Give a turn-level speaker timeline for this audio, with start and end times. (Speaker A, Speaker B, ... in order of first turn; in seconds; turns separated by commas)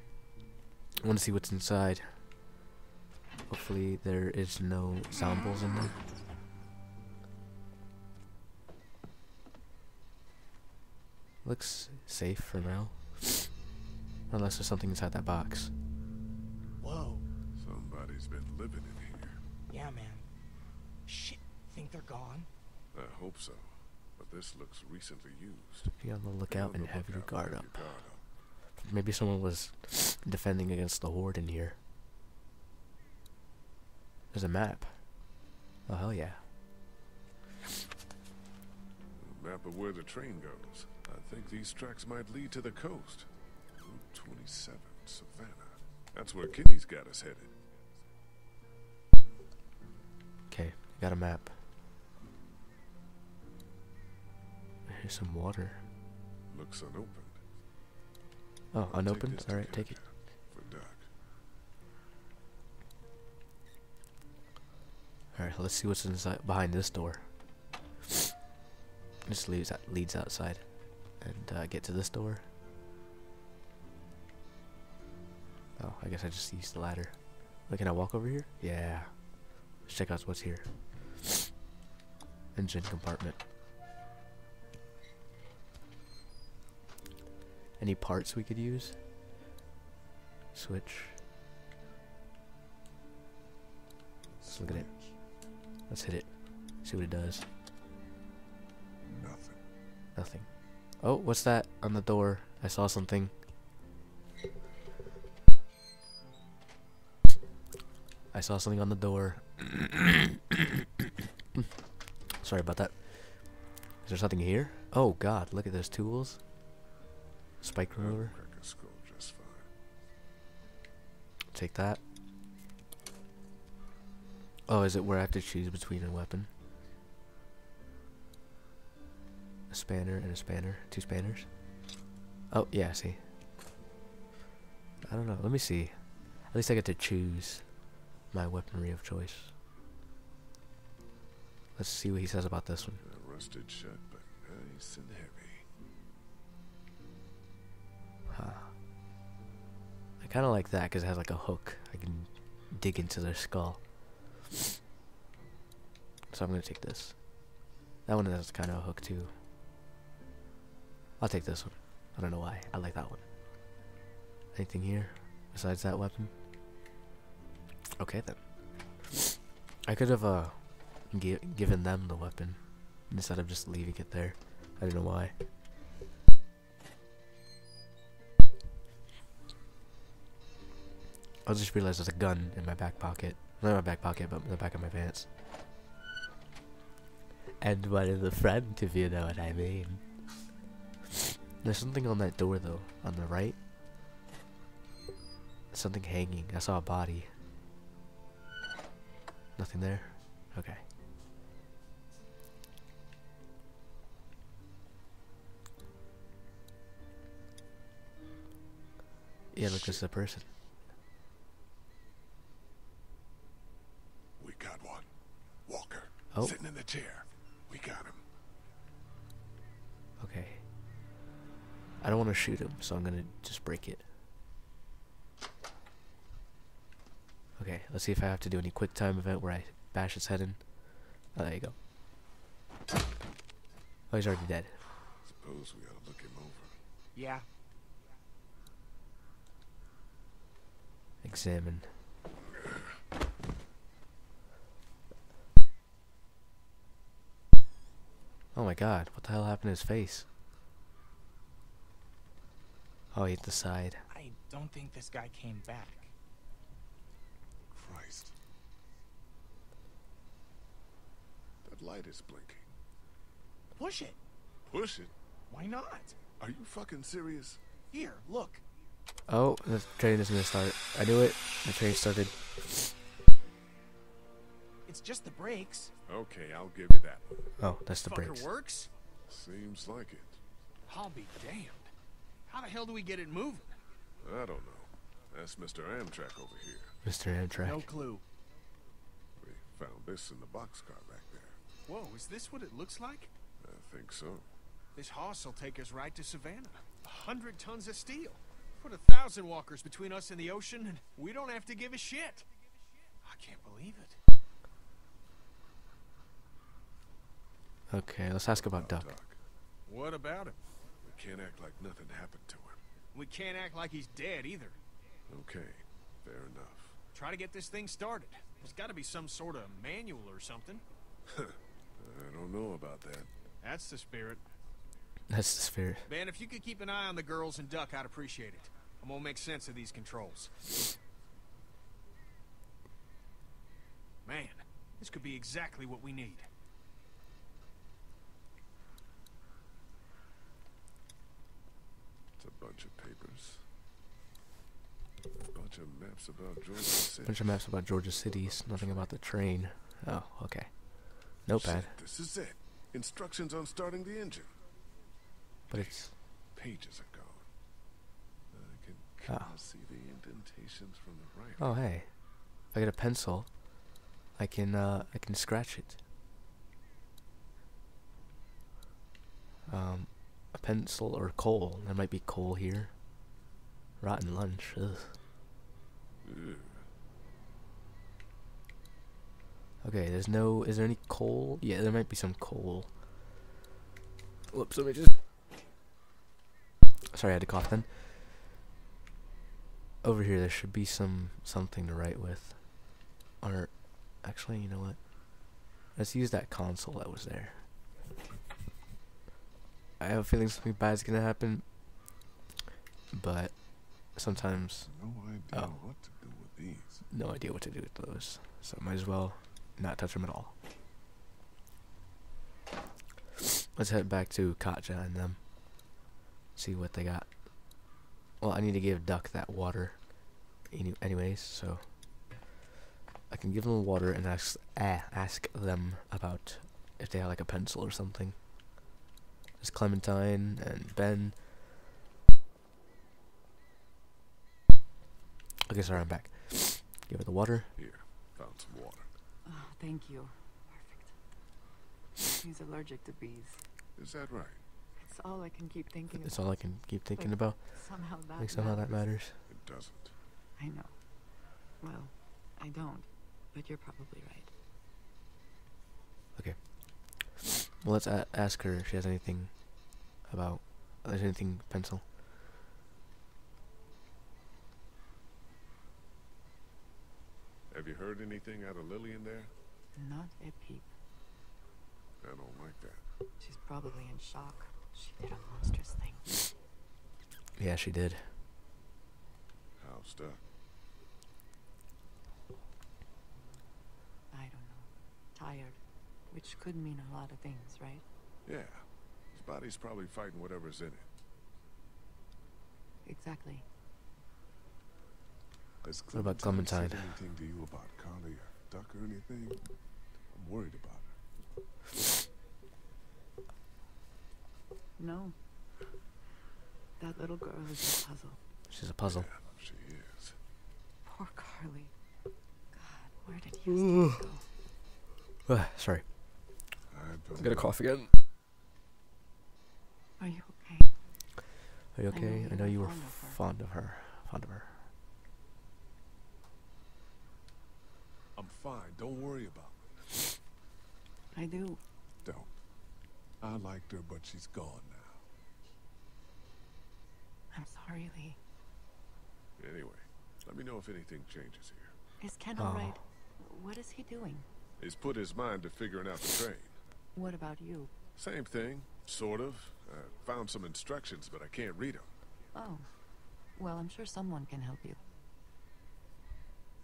Speaker A: 1.0-2.2, Speaker A: 3.5-5.9, Speaker A: 11.4-13.5, Speaker A: 14.3-15.7, Speaker B: 16.8-17.2, Speaker C: 17.5-19.4, Speaker B: 19.7-20.3, Speaker B: 21.1-22.5, Speaker C: 22.9-25.9, Speaker A: 25.8-28.1, Speaker C: 26.5-28.2, Speaker A: 28.8-31.8, Speaker A: 34.3-35.3, Speaker A: 35.9-36.4, Speaker C: 39.2-47.6, Speaker A: 50.5-51.6, Speaker A: 54.9-55.8, Speaker C: 56.5-57.4, Speaker A: 58.7-60.0, Speaker C: 58.9-61.1, Speaker A: 65.3-67.3, Speaker A: 69.2-72.5, Speaker A: 75.8-81.3, Speaker A: 82.5-83.4, Speaker A: 87.8-89.0, Speaker A: 90.5-91.2, Speaker C: 94.3-95.1, Speaker A: 94.5-94.9, Speaker A: 95.9-97.4, Speaker C: 99.1-99.6, Speaker A: 100.1-100.5, Speaker A: 101.0-103.4, Speaker A: 108.3-110.6, Speaker A: 112.4-116.4, Speaker A: 117.6-118.3, Speaker C: 117.9-119.7, Speaker A: 121.5-122.0, Speaker A: 124.7-126.5, Speaker A: 129.7-131.5, Speaker A: 132.5-133.2, Speaker A: 135.0-137.7, Speaker A: 138.3-139.5, Speaker A: 141.8-143.0, Speaker C: 143.0-145.6, Speaker A: 148.3-148.7, Speaker A: 150.2-153.8, Speaker A: 156.3-157.4, Speaker A: 158.1-159.3, Speaker A: 161.2-163.2, Speaker A: 164.5-166.3, Speaker A: 168.0-169.0, Speaker A: 169.8-175.4, Speaker A: 181.4-185.3, Speaker A: 187.6-190.1, Speaker A: 191.6-193.6, Speaker A: 195.7-197.3, Speaker A: 199.6-200.8, Speaker A: 209.5-210.5, Speaker C: 209.6-210.0, Speaker C: 214.4-215.1, Speaker C: 215.7-218.2, Speaker A: 216.3-216.6, Speaker A: 220.2-220.7, Speaker A: 222.0-224.1, Speaker A: 227.6-231.8, Speaker A: 234.1-234.8, Speaker C: 235.2-236.8, Speaker B: 237.1-237.5, Speaker A: 241.2-241.9, Speaker A: 248.5-250.3, Speaker A: 253.1-254.0, Speaker B: 254.1-256.1, Speaker C: 257.7-258.3, Speaker C: 261.6-262.6, Speaker B: 263.8-264.2, Speaker C: 264.6-265.1, Speaker B: 265.5-266.2, Speaker C: 266.4-267.6, Speaker B: 267.9-268.6, Speaker A: 269.3-272.9, Speaker B: 274.9-275.9, Speaker C: 276.1-277.4, Speaker A: 277.6-278.5, Speaker D: 278.0-278.9, Speaker C: 279.3-280.4, Speaker D: 280.9-281.9, Speaker D: 282.5-283.8, Speaker C: 284.2-286.9, Speaker A: 287.0-287.9, Speaker D: 287.6-288.2, Speaker C: 289.4-291.6, Speaker D: 291.9-293.3, Speaker C: 293.6-294.5, Speaker D: 294.9-302.4, Speaker D: 303.2-304.2, Speaker A: 307.9-309.1, Speaker C: 308.5-309.4, Speaker D: 309.9-310.6, Speaker C: 311.0-312.8, Speaker D: 313.1-314.8, Speaker C: 315.3-317.0, Speaker D: 317.1-320.8, Speaker C: 321.4-323.3, Speaker D: 323.6-324.4, Speaker A: 325.3-326.1, Speaker D: 326.1-330.7, Speaker D: 334.2-336.5, Speaker C: 342.4-343.6, Speaker C: 345.3-349.1, Speaker A: 347.2-351.9, Speaker C: 351.5-354.6, Speaker C: 355.7-357.4, Speaker A: 355.7-356.1, Speaker C: 358.5-361.6, Speaker A: 361.6-366.0, Speaker A: 369.7-373.0, Speaker A: 374.0-375.2, Speaker C: 376.2-376.9, Speaker A: 379.8-383.0, Speaker A: 384.5-385.1, Speaker A: 387.1-388.1, Speaker A: 390.0-395.0, Speaker A: 395.9-397.6, Speaker A: 400.0-401.7, Speaker A: 403.1-404.9, Speaker C: 404.4-407.1, Speaker A: 407.1-410.5, Speaker A: 413.7-415.8, Speaker A: 416.6-417.9, Speaker A: 418.4-421.9, Speaker A: 423.3-428.4, Speaker A: 429.6-431.4, Speaker A: 435.7-437.7, Speaker C: 437.8-439.1, Speaker E: 439.4-441.1, Speaker E: 442.3-443.6, Speaker C: 444.0-444.6, Speaker E: 445.0-446.6, Speaker A: 446.2-447.8, Speaker E: 447.1-449.0, Speaker A: 448.4-449.4, Speaker C: 449.5-450.1, Speaker E: 450.6-450.9, Speaker E: 451.8-454.5, Speaker A: 456.3-462.1, Speaker C: 467.7-469.5, Speaker E: 469.9-470.9, Speaker C: 472.2-473.0, Speaker E: 473.4-476.4, Speaker A: 477.6-478.3, Speaker C: 479.8-480.4, Speaker E: 484.3-485.8, Speaker E: 486.3-488.0, Speaker C: 488.4-491.1, Speaker E: 493.1-493.6, Speaker C: 495.8-499.7, Speaker A: 496.1-497.1, Speaker C: 500.3-501.2, Speaker E: 505.0-505.4, Speaker E: 507.0-508.4, Speaker A: 508.7-509.3, Speaker C: 509.0-510.4, Speaker E: 511.1-511.9, Speaker E: 512.7-514.5, Speaker A: 515.4-516.0, Speaker C: 516.9-517.7, Speaker A: 517.4-518.1, Speaker E: 520.2-521.0, Speaker A: 521.9-524.9, Speaker E: 522.1-523.4, Speaker C: 528.4-530.2, Speaker E: 531.3-531.8, Speaker C: 532.2-532.5, Speaker C: 533.4-535.2, Speaker E: 537.5-538.4, Speaker C: 539.6-541.9, Speaker E: 542.2-544.5, Speaker A: 542.6-543.0, Speaker C: 544.8-546.7, Speaker E: 547.1-547.9, Speaker C: 548.1-552.1, Speaker E: 552.5-552.9, Speaker E: 553.6-555.0